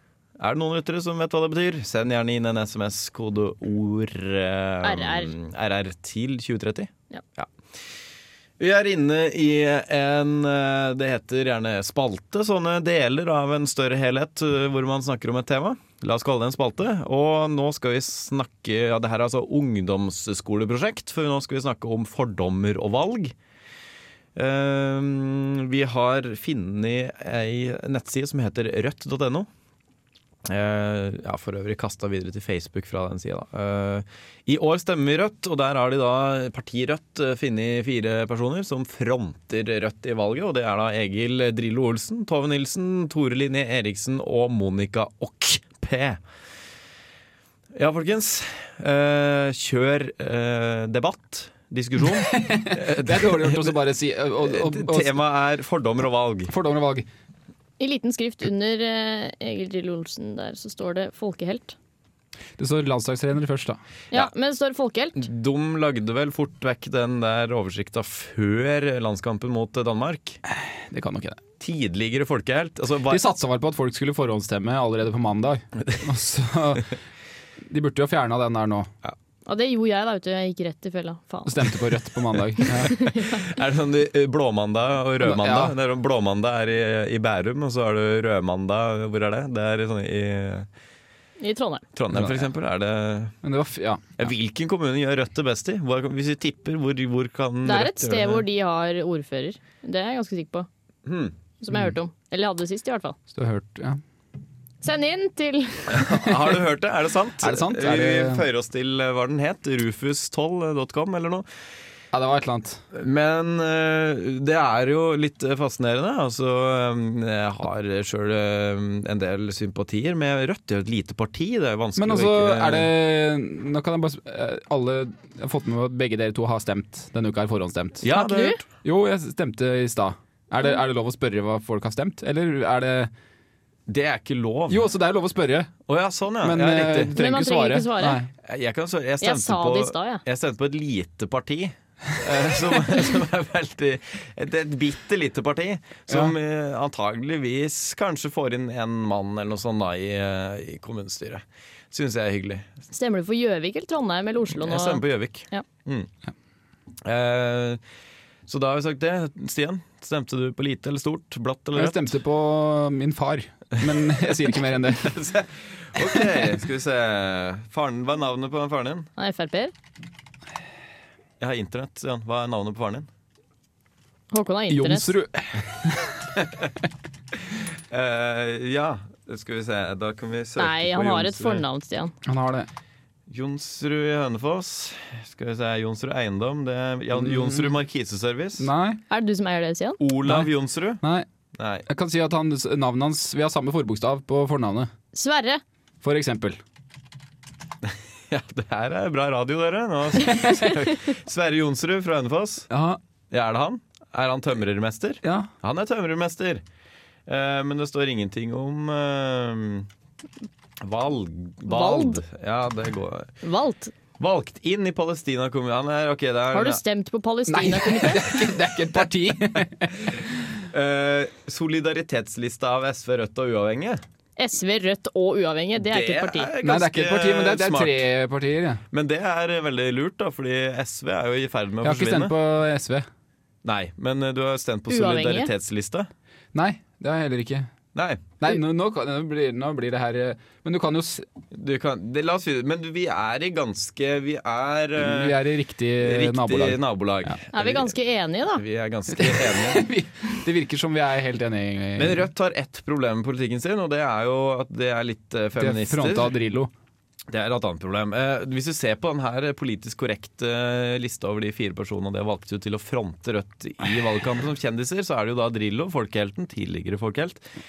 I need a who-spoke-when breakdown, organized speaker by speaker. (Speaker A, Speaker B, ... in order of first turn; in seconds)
Speaker A: 0.4-7.5, 8.6-23.4, 24.4-29.5, 30.4-46.2, 47.7-53.8, 54.4-56.5, 65.2-70.4, 71.6-73.3, 82.9-90.7, 92.0-93.3, 94.2-98.5, 101.1-101.4, 105.9-111.5, 112.9-122.9, 128.0-128.6, 133.9-134.9, 135.9-137.1, 138.4-152.7, 154.6-156.1, 157.0-157.8, 158.5-162.1, 163.8-169.1, 171.4-173.1, 177.5-181.7, 183.3-188.7, 190.0-191.0, 191.6-191.8, 197.8-202.7, 203.3-206.6, 207.3-209.9, 210.8-213.3, 214.2-216.8, 220.7-224.0, 225.8-228.1, 228.9-232.3, 233.6-236.1, 237.9-238.3, 241.5-245.4, 246.0-248.0, 248.5-249.8, 252.0-256.4, 257.3-267.4
Speaker B: 4.8-5.3, 57.8-61.8, 64.1-65.2, 79.5-81.8, 83.0-83.4, 91.4-91.8, 97.7-100.7, 101.6-103.2, 104.8-106.0, 128.1-128.6, 137.2-138.2, 139.2-140.2, 152.9-155.7, 169.2-169.7, 174.3-175.1, 180.6-182.1, 189.1-190.0, 195.1-195.6, 211.7-212.2, 213.4-213.9, 216.5-218.5, 224.4-226.5, 234.9-235.5, 247.5-248.6
Speaker C: 52.3-55.2, 56.5-57.1, 62.6-63.8, 70.5-71.4, 73.1-76.9, 77.7-78.9, 81.5-83.0, 85.2-85.7, 92.1-92.5, 93.4-94.2, 103.3-104.0, 107.4-108.5, 112.1-112.8, 122.0-128.1, 128.8-133.1, 134.7-135.7, 136.4-138.3, 146.1-146.3, 161.8-165.2, 174.7-176.2, 182.2-182.7, 187.2-187.7, 188.6-189.0, 191.0-191.3, 191.9-194.9, 196.0-196.6, 202.7-203.0, 205.2-205.5, 217.5-220.3, 226.6-228.8, 231.8-233.1, 236.5-237.7, 238.4-241.3, 245.0-247.4, 249.1-252.3, 255.6-256.7